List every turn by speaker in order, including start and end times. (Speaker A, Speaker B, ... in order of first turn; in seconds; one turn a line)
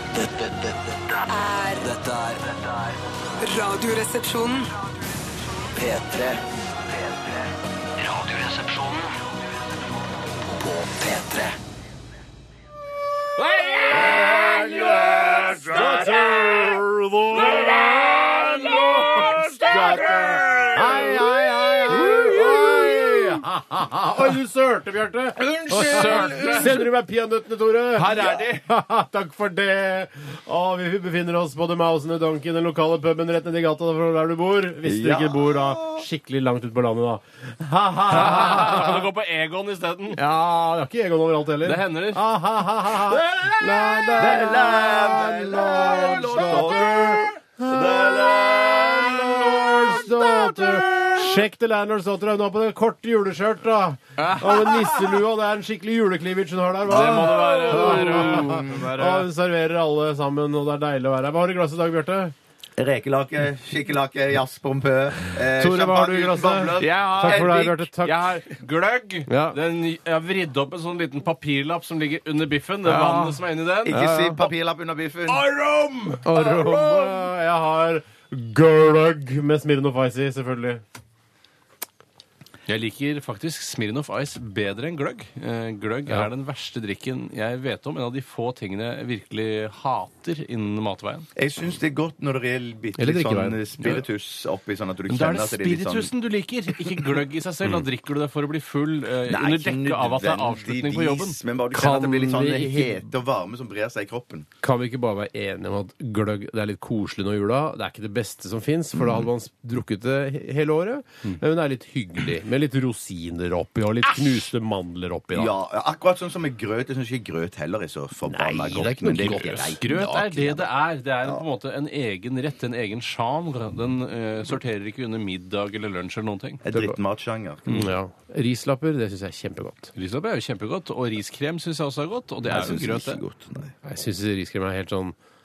Speaker A: 0.1-1.1
Speaker B: 1.3-1.9
Speaker A: 1.8-3.0
Speaker B: 3.4-4.7
Speaker A: 5.8-7.4
Speaker A: 8.0-9.1
Speaker A: 10.4-11.6
Speaker C: 13.7-16.5
Speaker D: 14.2-14.8
Speaker D: 15.4-39.0
Speaker C: 17.3-23.1
Speaker C: 25.4-26.7
Speaker E: 26.0-26.6
Speaker C: 28.0-28.6
Speaker E: 34.8-36.0
Speaker C: 38.1-40.2
Speaker D: 40.1-62.3
Speaker C: 41.6-42.2
Speaker C: 43.4-44.0
Speaker E: 44.1-50.1
Speaker C: 46.1-46.8
Speaker C: 54.2-55.2
Speaker E: 56.9-58.9
Speaker C: 56.9-59.3
Speaker E: 62.8-67.9
Speaker D: 65.3-68.2
Speaker C: 66.8-74.0
Speaker D: 69.3-69.6
Speaker D: 72.8-74.4
Speaker E: 73.8-75.4
Speaker C: 75.3-77.2
Speaker D: 76.2-80.8
Speaker C: 82.7-91.3
Speaker E: 91.4-96.1
Speaker D: 93.0-93.6
Speaker C: 95.1-101.4
Speaker E: 99.2-104.5
Speaker D: 101.7-103.1
Speaker D: 104.6-115.5
Speaker E: 108.9-109.3
Speaker E: 115.3-120.7
Speaker D: 118.2-119.8
Speaker C: 119.0-126.7
Speaker E: 126.6-127.8
Speaker D: 126.7-127.0
Speaker D: 127.7-129.9
Speaker C: 129.9-133.2
Speaker E: 132.5-133.7
Speaker D: 133.8-135.2